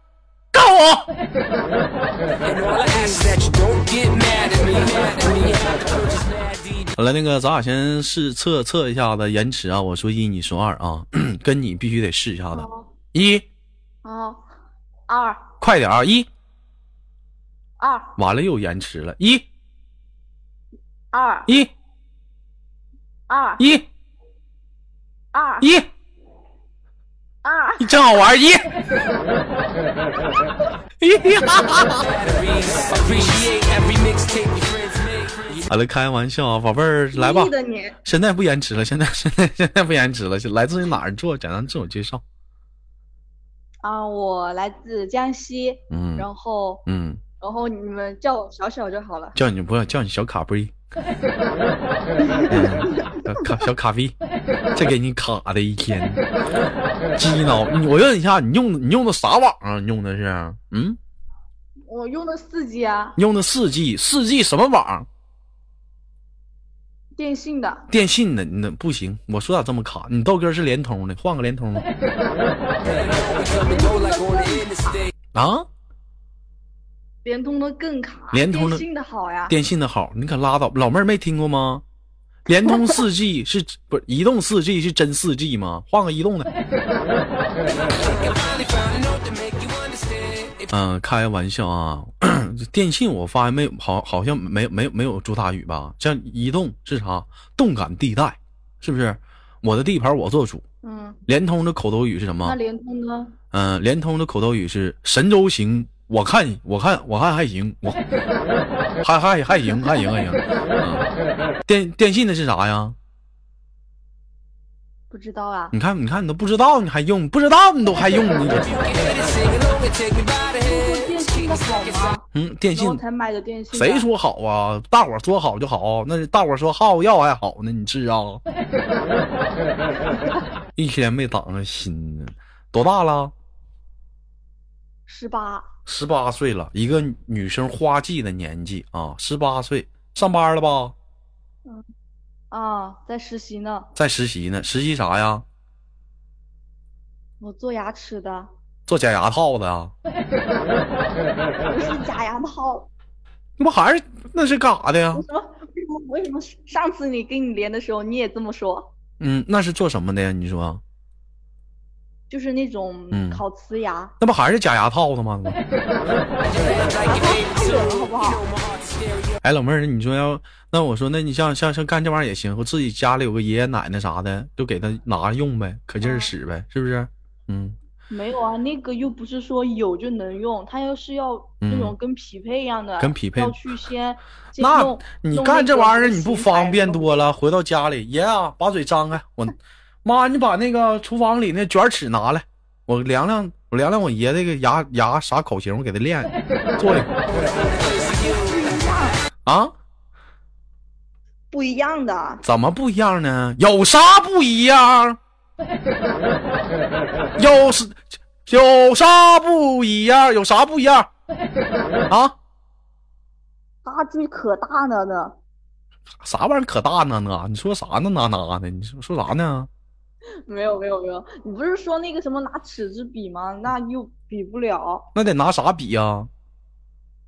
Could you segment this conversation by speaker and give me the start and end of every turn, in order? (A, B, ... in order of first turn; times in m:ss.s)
0:00.5-0:01.1 A
0:02.4-0:06.9 B
0:07.0-0:13.5 A
0:12.5-0:12.9 C
0:14.0-0:14.4 C
0:15.1-0:15.5 C
0:15.6-0:16.3 A
0:17.8-0:18.2 C
0:18.2-0:19.5 A
0:21.1-0:21.5 C
0:23.3-0:23.6 C
0:23.6-0:23.9 A
0:25.3-0:25.7 C
0:25.6-0:25.9 A
0:27.4-0:28.1 C
0:27.8-0:28.7 A
0:31.0-0:32.1 A
0:32.0-0:35.7 B
0:35.7-0:37.5 A
0:37.2-0:38.0 C
0:38.0-0:42.2 A
0:43.8-0:46.8 C
0:45.9-0:46.3 A
0:46.9-0:47.2 A
0:47.4-0:49.4 C
0:49.4-0:50.7 A
0:52.2-0:53.2 C
0:52.5-0:54.2 A
0:54.7-0:56.2 A
0:57.2-1:01.0 A
1:01.9-1:03.2 C
1:03.2-1:05.1 A
1:07.2-1:07.9 C
1:07.9-1:11.9 A
1:12.8-1:15.0 B
1:13.6-1:15.0 C
1:15.3-1:15.7 A
1:17.2-1:19.6 C
1:18.3-1:18.8 A
1:19.5-1:21.8 A
1:22.5-1:26.5 A
1:27.7-1:30.7 B
1:30.7-1:40.6 A
1:40.8-1:41.2 C
1:41.3-1:42.6 A
1:42.4-1:43.4 C
1:43.5-1:48.0 A
1:49.0-1:51.1 A
1:51.6-1:53.0 A
1:55.1-1:55.8 C
1:55.7-1:58.8 A
1:58.7-2:01.2 B
2:00.6-2:04.1 C
2:02.3-2:03.0 A
2:03.7-2:08.4 A
2:10.8-2:13.3 A
2:15.1-2:15.7 C
2:15.9-2:21.0 A
2:22.5-2:23.9 C
2:24.0-2:25.4 A
2:27.4-2:28.5 C
2:28.9-2:29.9 A
2:31.7-2:32.9 C
2:33.6-2:35.2 A
2:35.1-2:38.9 C
2:39.2-2:40.8 A
2:42.3-2:44.1 C
2:43.1-2:43.4 A
2:44.2-2:45.6 A
2:46.5-2:49.4 B
2:46.9-2:48.4 C
2:49.4-2:57.8 A
2:56.0-2:56.3 C
2:58.1-3:07.3 C
3:01.6-3:02.0 A
3:03.0-3:03.6 A
3:04.6-3:17.1 A
3:18.1-3:19.2 C
3:19.5-3:19.7 A
3:21.5-3:22.4 C
3:22.4-3:25.2 A
3:27.4-3:31.1 A
3:32.1-3:32.4 A
3:33.8-3:35.4 C
3:36.2-3:39.7 A
3:40.5-3:45.1 C
3:45.2-3:46.3 A